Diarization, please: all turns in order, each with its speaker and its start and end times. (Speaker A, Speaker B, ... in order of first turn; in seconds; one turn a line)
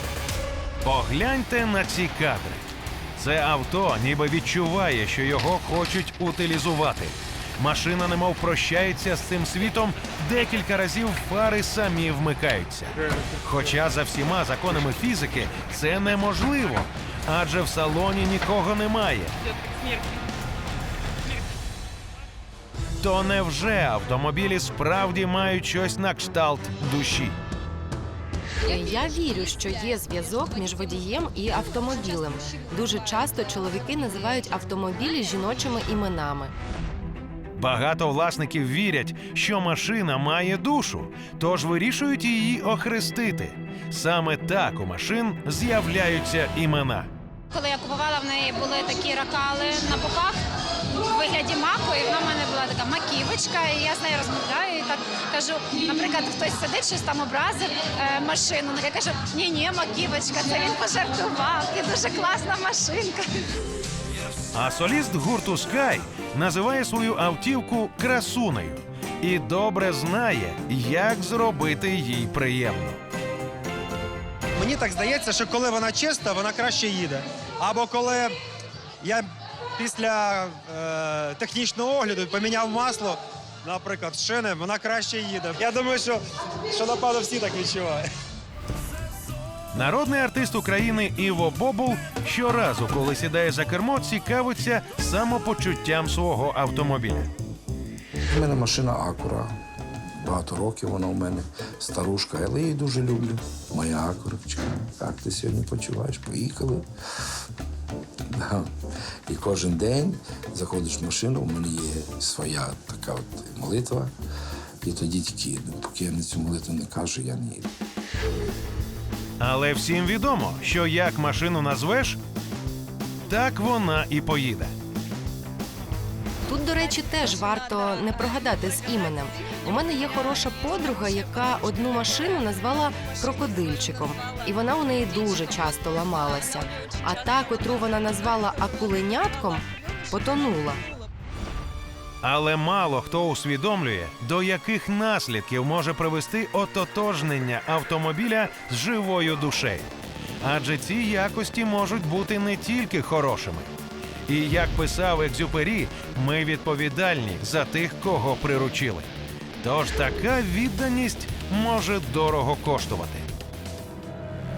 Speaker A: 0.8-2.6
Speaker A: 3.2-19.3
Speaker A: 23.0-27.4
Speaker B: 28.6-31.0
Speaker C: 28.6-36.5
Speaker A: 37.6-47.1
Speaker B: 47.5-50.4
Speaker B: 51.0-63.5
Speaker A: 64.5-73.0
Speaker D: 74.6-78.3
Speaker D: 79.8-86.2
Speaker D: 86.7-88.0
Speaker A: 89.7-97.3
Speaker E: 98.3-99.6
Speaker E: 100.2-106.9
Speaker E: 108.3-108.7
Speaker E: 109.3-114.1
Speaker E: 114.8-117.7
Speaker A: 119.4-122.2
Speaker A: 123.3-124.7
Speaker C: 126.5-140.8
Speaker A: 142.2-149.9
Speaker A: 150.4-153.7
Speaker A: 154.3-163.3